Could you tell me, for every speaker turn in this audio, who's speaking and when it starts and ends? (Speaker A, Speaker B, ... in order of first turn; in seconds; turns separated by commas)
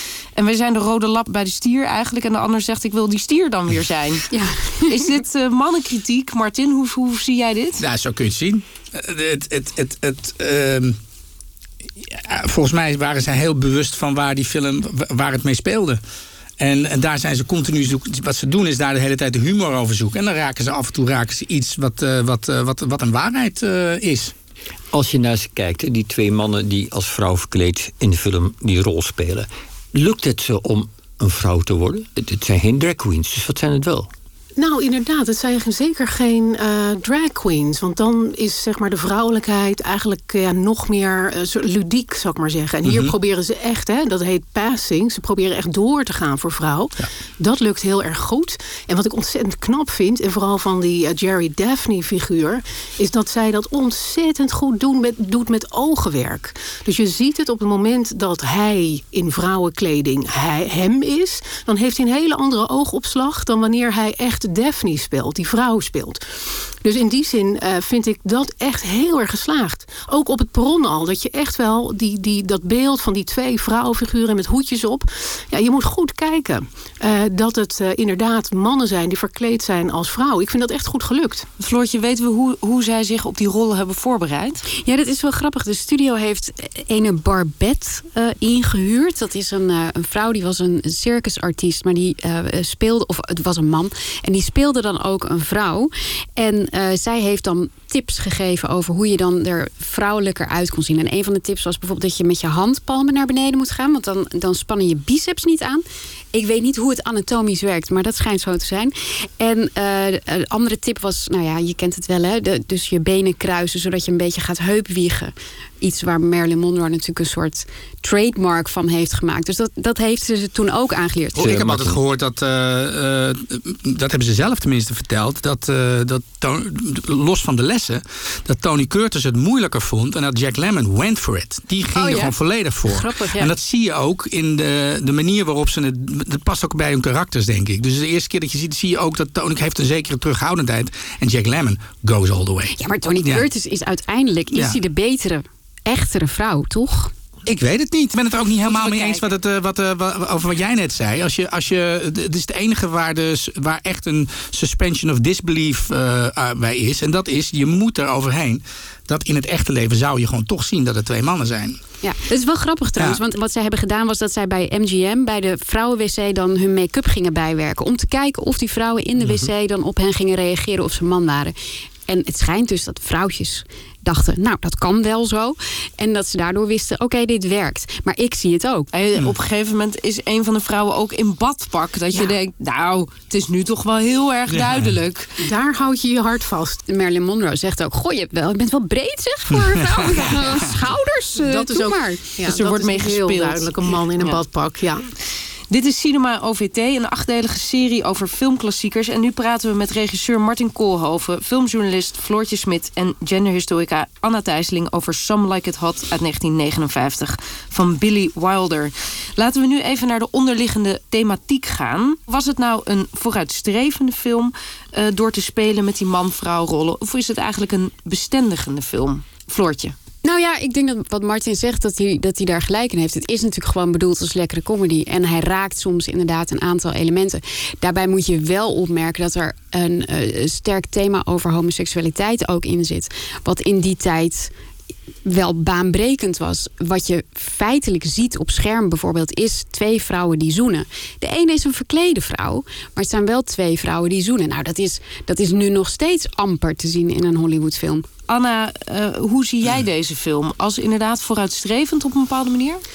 Speaker A: 0.4-4.3, Speaker B: 4.3-5.0, Speaker A: 4.8-7.8, Speaker C: 7.8-11.0, Speaker C: 12.0-16.0, Speaker C: 16.6-24.3, Speaker D: 24.9-34.1, Speaker E: 34.6-66.2, Speaker C: 42.9-43.1, Speaker E: 66.8-81.5, Speaker A: 81.6-84.6, Speaker B: 84.8-121.5, Speaker D: 121.4-122.0, Speaker C: 121.4-143.5, Speaker B: 131.9-132.3, Speaker B: 132.9-133.5, Speaker B: 142.8-147.1, Speaker C: 147.5-161.8, Speaker A: 148.6-149.3, Speaker B: 162.0-171.5, Speaker C: 169.2-169.5, Speaker B: 172.1-178.9, Speaker A: 178.9-185.4, Speaker C: 184.5-184.9, Speaker E: 185.4-186.8, Speaker B: 186.9-192.3, Speaker C: 189.5-190.4, Speaker E: 191.4-195.1, Speaker A: 192.4-194.4, Speaker A: 195.7-219.9, Speaker B: 220.2-234.5, Speaker B: 235.2-248.1, Speaker A: 248.3-252.8